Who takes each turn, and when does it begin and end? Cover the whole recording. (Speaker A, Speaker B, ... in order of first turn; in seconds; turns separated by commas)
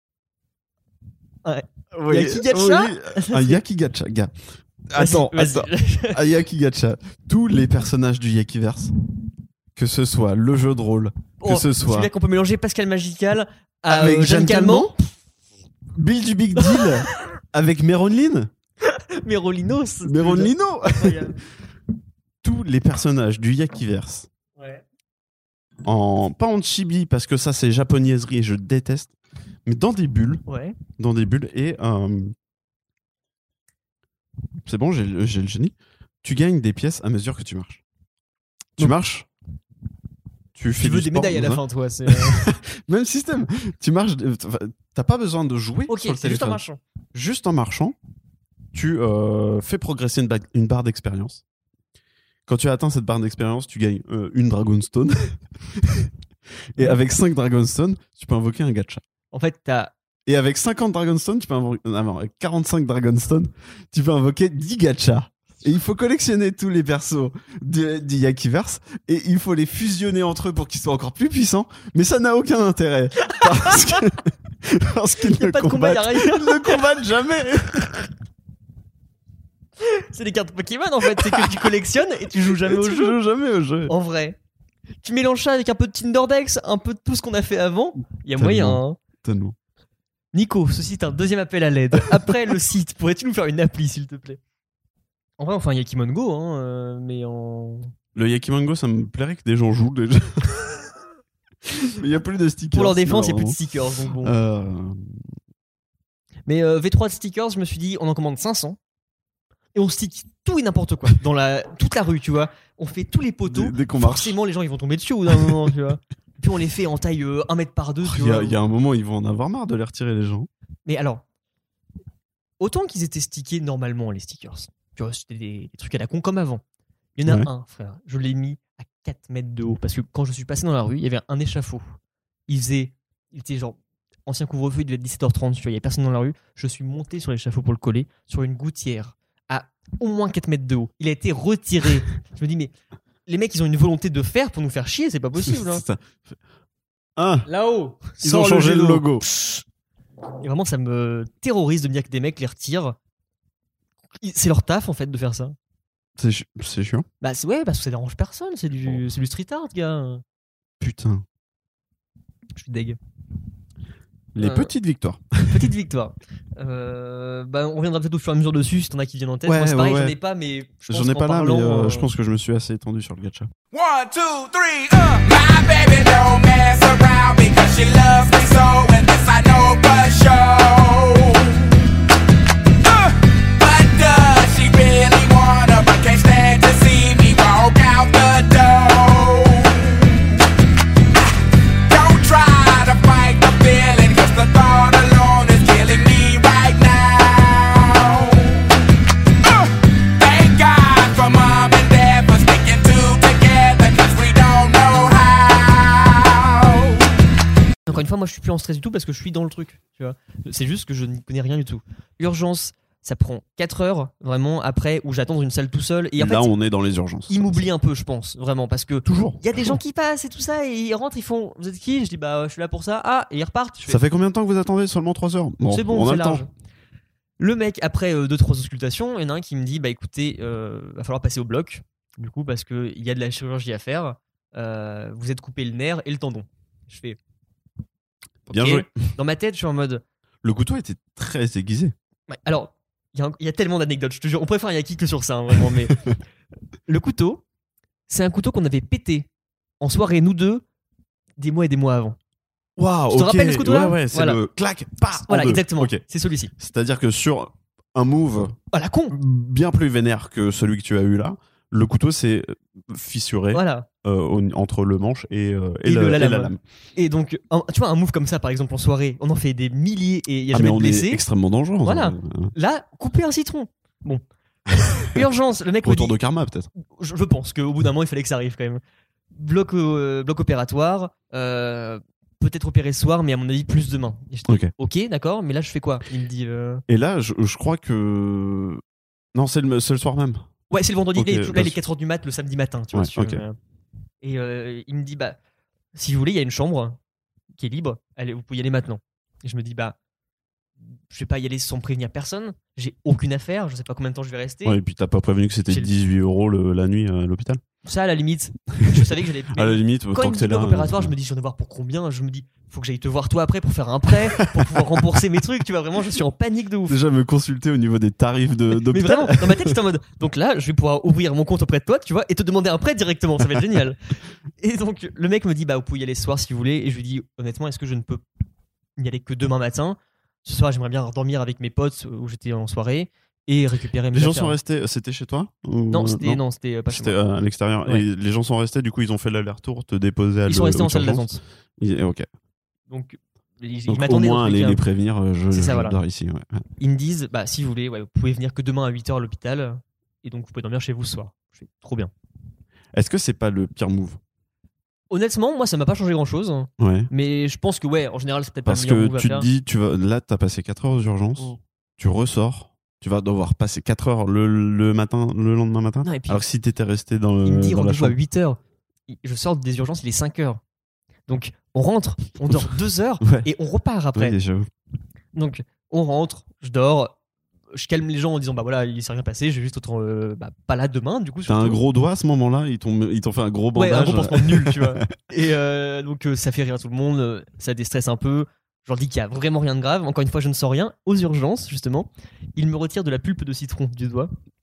Speaker A: 1.4-3.6, Speaker B: 1.9-4.3, Speaker B: 4.9-8.9, Speaker A: 5.0-6.2, Speaker B: 9.8-12.1, Speaker A: 11.4-14.9, Speaker B: 13.9-14.9, Speaker B: 15.9-18.5, Speaker A: 16.6-16.9, Speaker A: 18.8-21.4, Speaker B: 20.0-21.3, Speaker B: 22.4-24.3, Speaker A: 24.6-24.8, Speaker B: 25.8-29.1, Speaker B: 29.6-30.4, Speaker A: 30.5-30.8, Speaker B: 31.0-32.3, Speaker B: 34.6-37.8, Speaker B: 38.8-39.3, Speaker B: 40.5-46.6, Speaker A: 40.8-42.4, Speaker A: 45.9-46.8, Speaker B: 47.1-48.0, Speaker B: 48.7-51.4, Speaker B: 52.5-56.1, Speaker B: 56.7-59.0, Speaker A: 59.3-59.9, Speaker B: 60.2-78.1, Speaker A: 73.3-74.0, Speaker A: 75.2-76.8, Speaker A: 79.8-83.2, Speaker B: 81.0-81.8, Speaker B: 82.3-83.9, Speaker A: 83.9-84.4, Speaker A: 85.0-89.0, Speaker B: 88.3-89.5, Speaker A: 90.3-94.4, Speaker A: 95.4-97.9, Speaker B: 98.1-100.8, Speaker B: 101.8-103.6, Speaker A: 102.7-104.3, Speaker B: 104.2-105.2, Speaker A: 106.5-108.8, Speaker A: 109.7-118.6, Speaker B: 113.5-114.4, Speaker B: 118.0-120.5, Speaker A: 120.8-121.2, Speaker A: 122.6-126.6, Speaker A: 127.2-131.9, Speaker A: 132.5-142.7, Speaker A: 143.2-145.8, Speaker B: 145.4-146.3, Speaker B: 147.2-147.5, Speaker A: 147.4-149.6, Speaker B: 148.2-149.2, Speaker A: 150.4-153.0, Speaker A: 154.2-155.6, Speaker B: 156.2-157.1, Speaker A: 157.2-160.2, Speaker B: 160.8-161.2, Speaker A: 162.6-163.0, Speaker B: 164.3-165.7, Speaker A: 164.4-164.7, Speaker A: 165.5-172.1, Speaker B: 169.4-170.2, Speaker B: 170.9-173.5, Speaker C: 173.7-181.8, Speaker C: 182.8-190.4, Speaker C: 191.9-198.7, Speaker C: 199.4-207.1, Speaker A: 207.9-216.5, Speaker B: 216.2-217.7, Speaker A: 217.3-224.0, Speaker B: 219.0-219.8, Speaker B: 223.9-226.4, Speaker A: 225.7-226.5, Speaker A: 227.4-237.2, Speaker B: 238.5-239.0, Speaker A: 238.5-240.0, Speaker B: 240.4-241.9, Speaker A: 242.3-246.0, Speaker A: 246.9-247.4, Speaker A: 248.1-249.3, Speaker A: 249.8-250.6, Speaker A: 251.4-252.2, Speaker B: 252.8-256.0, Speaker A: 253.1-254.4, Speaker A: 255.3-256.5, Speaker B: 256.6-258.6, Speaker A: 258.7-259.1, Speaker B: 259.1-266.6, Speaker A: 263.5-263.9, Speaker A: 265.8-271.2, Speaker B: 270.5-272.5, Speaker A: 271.8-274.2, Speaker A: 275.1-276.2, Speaker B: 275.8-276.7, Speaker A: 276.8-278.8, Speaker A: 279.3-286.8, Speaker B: 284.5-284.7, Speaker B: 286.9-288.8, Speaker B: 289.3-290.5, Speaker A: 290.7-293.6, Speaker B: 291.1-291.8, Speaker B: 292.9-293.4, Speaker A: 294.2-295.4, Speaker A: 295.9-297.0, Speaker A: 297.6-299.9, Speaker A: 301.1-304.8, Speaker B: 304.6-307.6, Speaker A: 307.8-317.0, Speaker B: 308.8-311.1, Speaker B: 314.1-314.8, Speaker B: 316.9-319.7, Speaker A: 318.7-324.0, Speaker A: 324.6-328.2, Speaker A: 329.0-334.6, Speaker B: 334.1-342.3, Speaker A: 335.9-337.2, Speaker A: 340.5-341.4, Speaker A: 342.9-344.8, Speaker B: 343.9-346.6, Speaker A: 345.5-346.0, Speaker A: 346.8-352.1, Speaker B: 352.9-354.2, Speaker A: 355.1-359.5, Speaker B: 356.8-357.1, Speaker B: 358.6-368.1, Speaker A: 366.0-366.4, Speaker A: 367.4-370.6, Speaker A: 371.3-374.4, Speaker B: 373.2-373.5, Speaker B: 374.1-374.7, Speaker A: 375.3-377.1, Speaker A: 377.7-381.8, Speaker B: 381.5-385.1, Speaker A: 383.7-394.3